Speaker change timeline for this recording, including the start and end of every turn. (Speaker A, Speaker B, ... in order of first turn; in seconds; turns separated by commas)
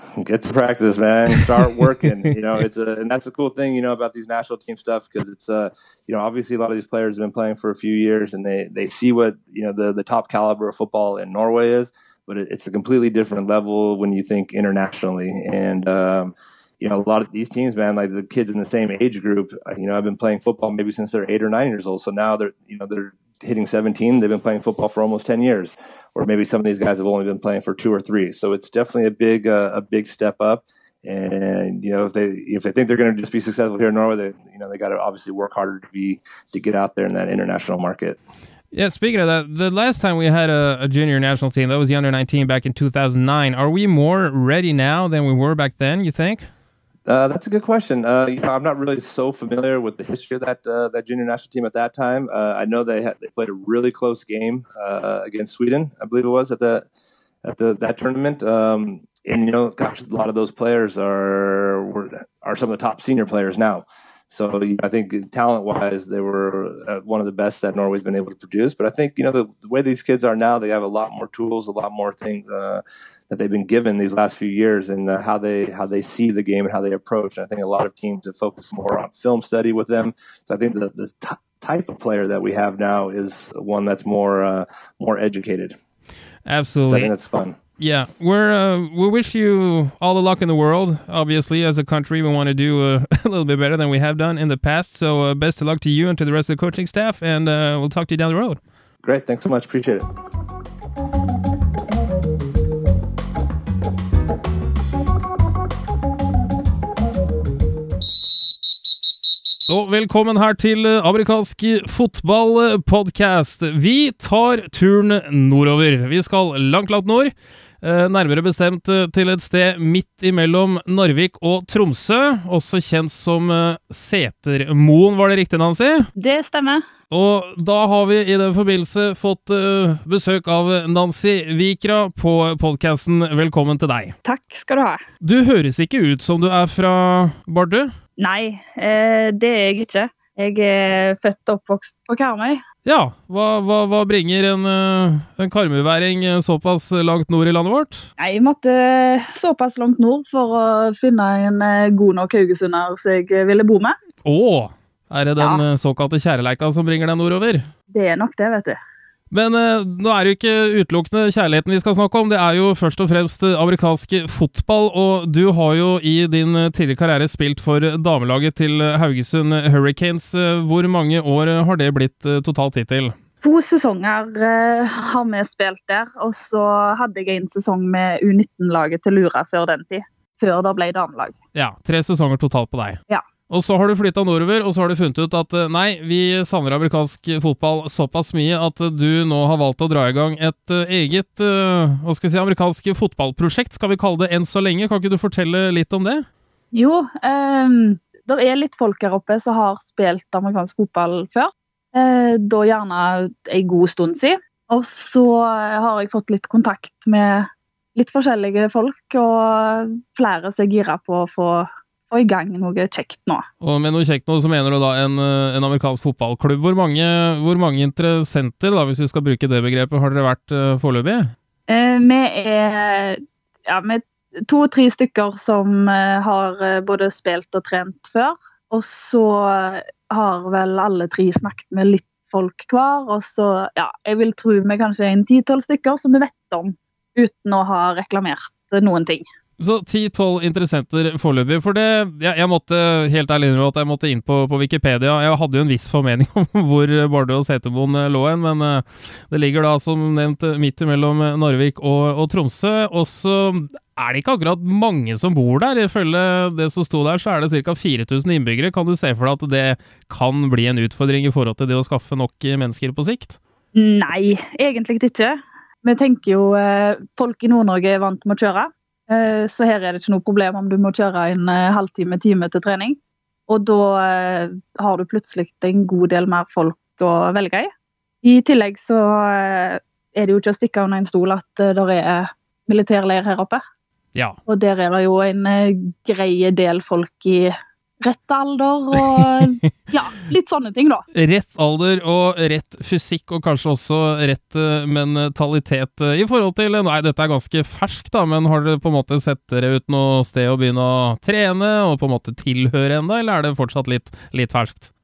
Speaker A: 0.2-38.2, Speaker B: 38.7-46.5, Speaker A: 47.0-56.8, Speaker A: 57.4-85.8, Speaker B: 86.5-87.1, Speaker A: 86.9-87.5, Speaker B: 87.8-98.6, Speaker A: 99.0-100.0, Speaker B: 109.7-126.1, Speaker C: 126.2-126.8, Speaker B: 127.1-134.1, Speaker C: 134.2-135.0, Speaker B: 135.2-137.9, Speaker C: 138.2-142.6, Speaker B: 142.8-148.1, Speaker C: 148.2-154.0, Speaker B: 154.2-157.7, Speaker C: 155.4-155.6, Speaker C: 157.9-158.8, Speaker B: 159.3-173.1, Speaker C: 173.4-181.3, Speaker B: 181.5-196.2, Speaker C: 196.7-213.4, Speaker B: 213.6-221.3, Speaker C: 221.7-239.2, Speaker B: 239.6-263.4, Speaker C: 263.7-277.7, Speaker C: 278.2-283.6, Speaker C: 284.4-291.0, Speaker B: 291.1-304.9